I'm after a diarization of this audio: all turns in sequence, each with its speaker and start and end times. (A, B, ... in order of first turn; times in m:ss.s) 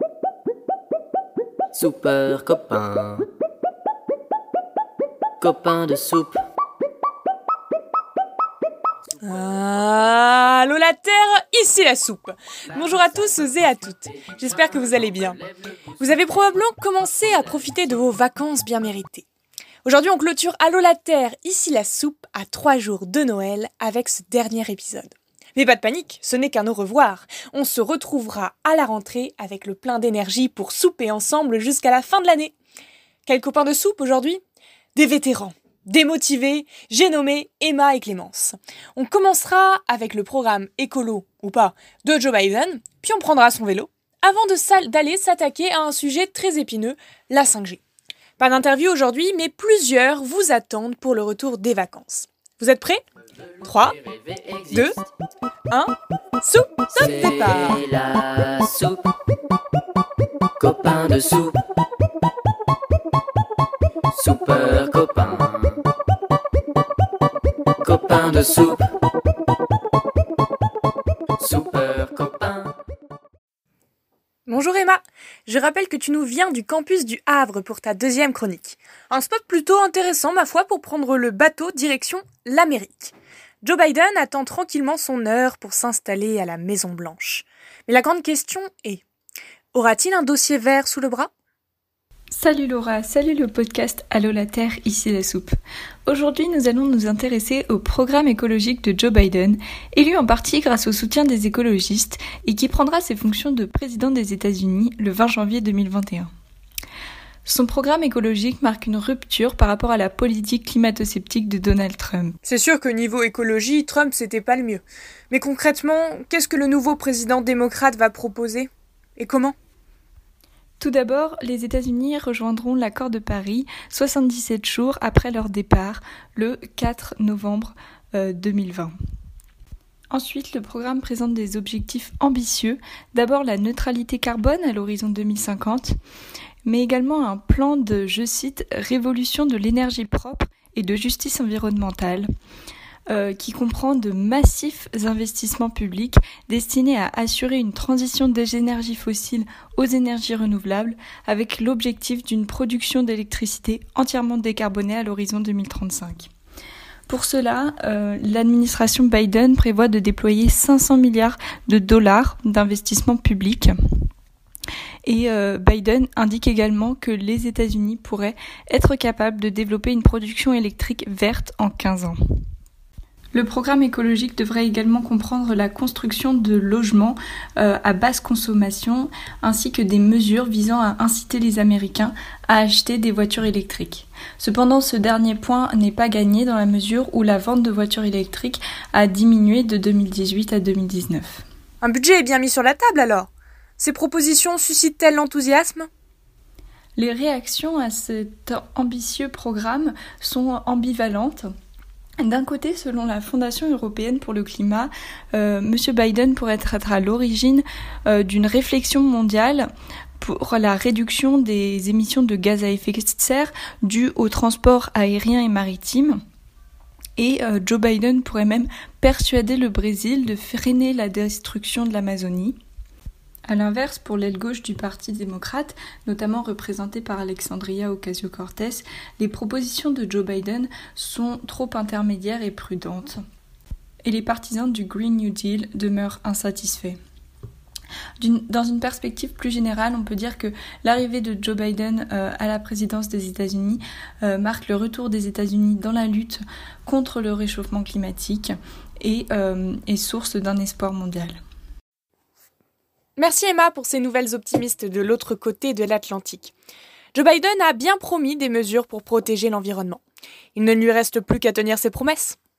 0:01.7-0:03.3 A
0:05.4-0:06.4 A
0:09.2-0:15.4 B
0:16.0-0:19.2 B
0:19.8-0:32.5 B
0:33.3-0:34.4 B
0:35.0-0:47.8 B
0:48.4-0:53.0 B
0:53.6-0:54.0 B
0:53.9-0:55.0 A
0:55.7-0:57.8 B
0:57.0-0:59.1 A
1:00.6-1:01.6 A
1:04.1-1:05.8 A
1:07.8-1:08.8 A
1:11.4-1:12.7 A
1:14.5-1:29.0 B
1:29.7-1:31.3 B
1:32.3-1:35.6 C
1:36.1-1:46.3 C
1:47.5-1:52.4 C
1:52.4-1:59.6 B
2:00.8-2:08.9 C
2:10.1-2:16.0 C
2:16.6-2:22.3 C
2:23.1-2:36.3 C
2:37.1-2:43.8 C
2:45.1-2:52.2 C
2:53.3-3:11.4 C
3:11.8-3:15.9 B
3:17.0-3:21.5 C
3:22.2-3:29.7 C
3:30.2-3:36.2 C
3:37.2-3:42.6 C
3:43.5-3:53.2 C
3:54.0-3:57.0 C
3:58.2-4:11.4 C
4:13.2-4:16.5 B
4:17.1-4:20.0 B
4:20.6-4:22.4 B